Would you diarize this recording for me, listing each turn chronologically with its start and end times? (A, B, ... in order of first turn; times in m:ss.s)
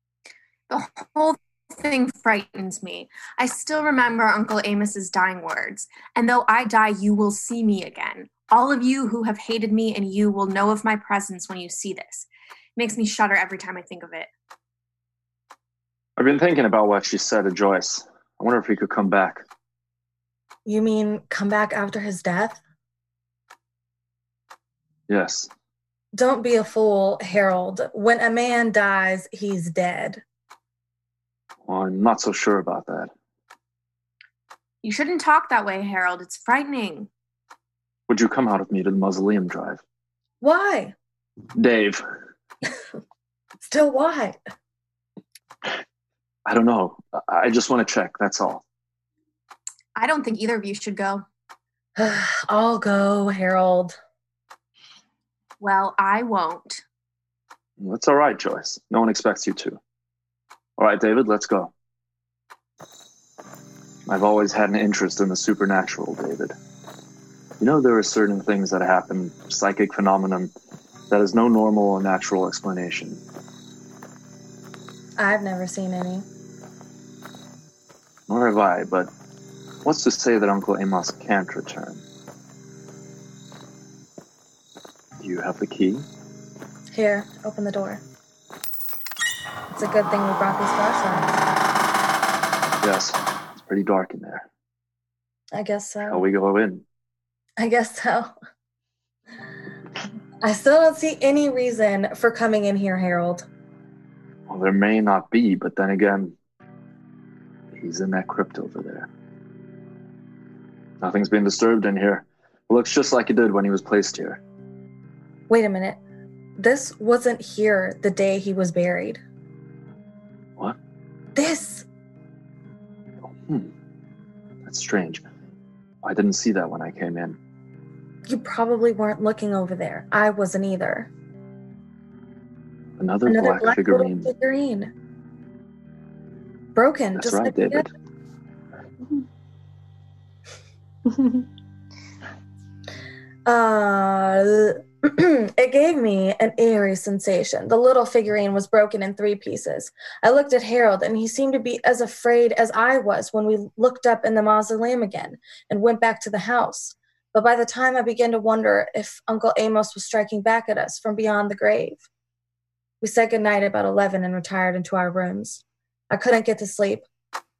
0:00.7-0:14.3 A
0:16.2-0:19.4 B
0:20.6-0:22.6 C
0:25.1-0:25.5 B
0:26.1-0:30.2 C
0:31.6-0:33.1 B
0:34.8-0:37.1 A
0:38.1-0:39.8 B
0:40.4-0:40.9 C
0:41.6-0:42.0 B
0:43.6-0:44.4 C
0:46.4-0:48.6 B
0:50.0-0:51.2 A
0:52.0-0:54.0 C
0:55.6-0:56.8 A
0:57.8-0:59.8 B
1:00.8-1:01.7 B
1:04.1-1:06.5 B
1:07.6-1:10.5 B
1:11.1-1:13.2 B
1:15.2-1:16.2 C
1:18.3-1:19.1 B
1:19.8-1:22.0 B
1:25.2-1:26.1 B
1:26.9-1:28.0 C
1:29.7-1:31.4 C
1:32.8-1:34.4 B
1:35.5-1:36.2 C
1:36.1-1:36.8 B
1:37.6-1:38.3 C
1:40.4-1:43.4 C
1:44.5-1:46.4 B
1:47.7-1:49.1 B
1:51.0-1:54.4 B
1:55.5-1:56.0 C
1:56.6-1:59.2 C
2:01.3-2:01.8 C
2:03.3-2:03.7 B
2:04.6-2:05.2 B
2:06.0-2:07.4 B
2:08.3-2:11.1 C
2:13.0-2:14.3 B
2:13.2-2:14.9 C
2:16.7-2:17.9 C
2:17.2-2:17.9 B
2:23.4-2:42.0 C
2:43.0-2:47.0 C